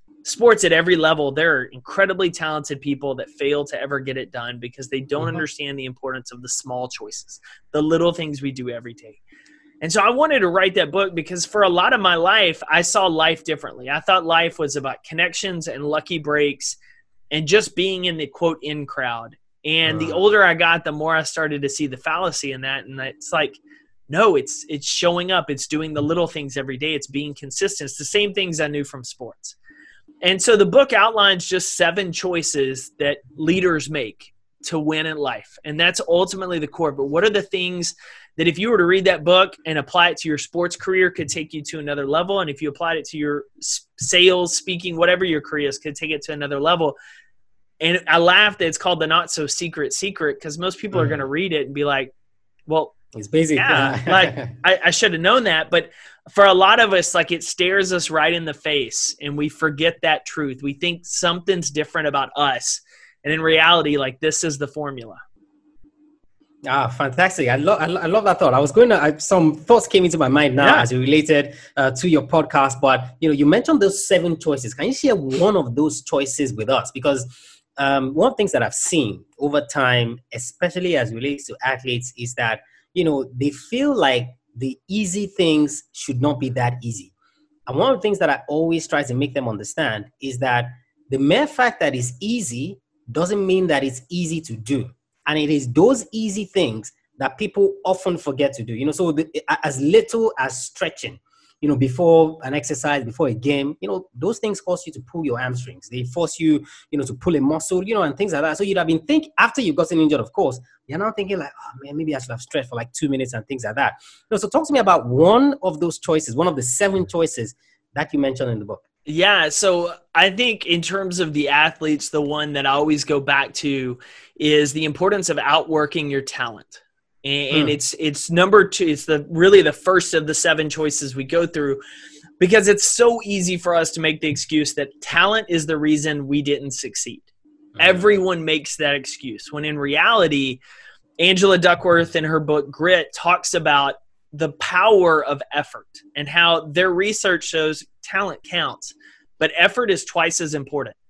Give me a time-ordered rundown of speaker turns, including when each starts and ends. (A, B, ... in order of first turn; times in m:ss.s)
0:00.2-0:09.2 A
0:09.8-0:16.8 A
0:17.3-0:23.6 A
0:19.8-0:20.2 B
0:24.1-0:29.6 A
0:30.2-0:47.0 A
0:47.8-0:52.1 A
0:50.9-0:51.2 B
0:52.7-0:52.9 A
0:53.1-0:54.5 B
0:53.6-1:05.2 A
1:06.7-1:27.1 B
1:10.6-1:10.8 A
1:27.7-1:58.8 B
1:59.0-2:11.8 A
2:12.4-2:17.3 A
2:17.8-2:18.1 B
2:17.8-2:20.6 A
2:21.2-2:31.0 A